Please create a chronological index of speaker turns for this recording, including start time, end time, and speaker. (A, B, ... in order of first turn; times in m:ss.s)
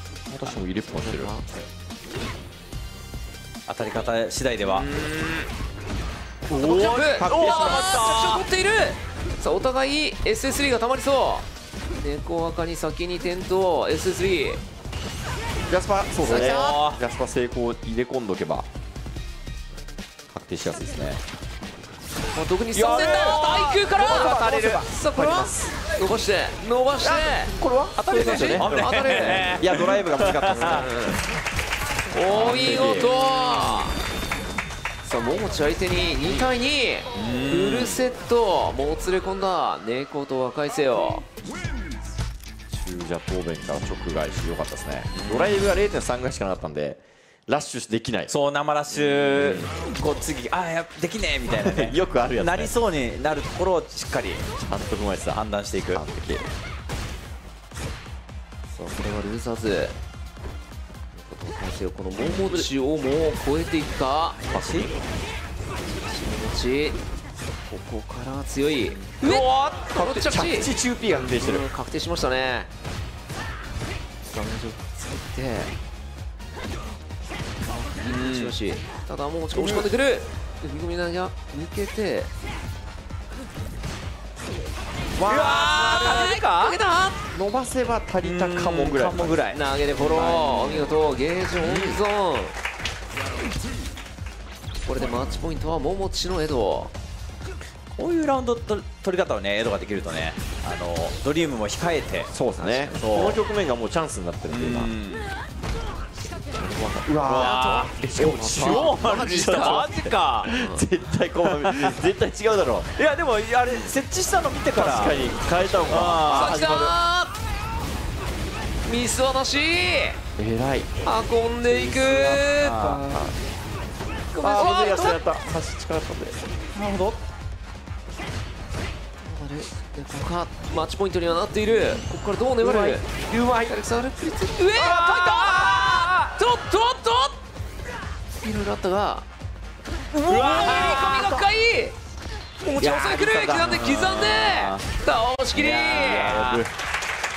0:00.3-0:01.3 A
0:00.4-0:01.6 B
0:03.7-0:04.9 C
0:04.8-0:05.3 B
0:06.5-0:08.4 C
0:06.6-0:11.5 B
0:06.7-0:08.2 A
0:12.0-0:14.6 B
0:15.7-0:18.7 A
0:16.2-0:16.8 B
0:16.2-0:17.0 C
0:20.3-0:21.2 A
0:22.3-0:27.5 B
0:22.7-0:25.8 A
0:22.8-0:24.9 C
0:27.0-0:31.1 A
0:28.0-0:30.9 C
0:28.1-0:29.6 B
0:30.6-0:31.2 B
0:32.1-0:34.0 B
0:32.3-0:33.2 A
0:35.0-0:41.2 B
0:37.1-0:38.0 C
0:42.7-0:48.3 A
0:45.1-0:45.6 C
0:48.3-0:54.4 C
0:48.9-0:49.7 A
0:51.5-0:52.7 A
0:54.6-0:55.4 A
0:55.3-0:56.0 C
0:55.9-0:56.5 A
0:58.7-1:00.0 B
1:01.1-1:04.4 B
1:02.2-1:02.6 C
1:02.4-1:02.6 A
1:04.4-1:04.9 C
1:04.5-1:04.9 A
1:05.8-1:07.0 B
1:07.6-1:12.7 B
1:09.2-1:09.9 C
1:09.9-1:11.7 A
1:14.2-1:15.7 B
1:17.6-1:22.3 B
1:18.1-1:18.6 C
1:19.5-1:19.8 C
1:25.2-1:25.7 A
1:25.2-1:26.8 C
1:25.2-1:27.2 B
1:27.3-1:29.4 A
1:28.2-1:30.9 C
1:29.5-1:32.5 B
1:31.6-1:32.0 C
1:34.8-1:36.9 B
1:37.9-1:42.3 C
1:42.3-1:44.9 A
1:42.6-1:43.0 B
1:42.9-1:43.4 C
1:44.5-1:45.3 C
1:46.6-1:50.8 B
1:46.9-1:52.9 A
1:47.2-1:50.5 C
1:51.5-1:52.1 C
1:52.9-1:55.3 C
1:54.7-1:56.9 A
1:55.6-1:57.4 B
1:55.9-1:56.6 C
1:58.8-2:00.2 B
2:00.4-2:00.9 A
2:01.0-2:03.2 B
2:01.7-2:03.2 C
2:02.7-2:03.4 A
2:04.3-2:05.2 B
2:04.4-2:06.4 A
2:04.5-2:05.2 C
2:06.7-2:07.2 C
2:09.2-2:17.4 B
2:12.6-2:13.7 A
2:14.7-2:16.2 C
2:18.4-2:19.2 B
2:20.1-2:21.4 C
2:20.3-2:21.9 B
2:20.5-2:21.0 A
2:22.6-2:23.1 A
2:22.7-2:26.6 B
2:22.8-2:24.8 C
2:25.5-2:26.7 C
2:26.2-2:26.7 A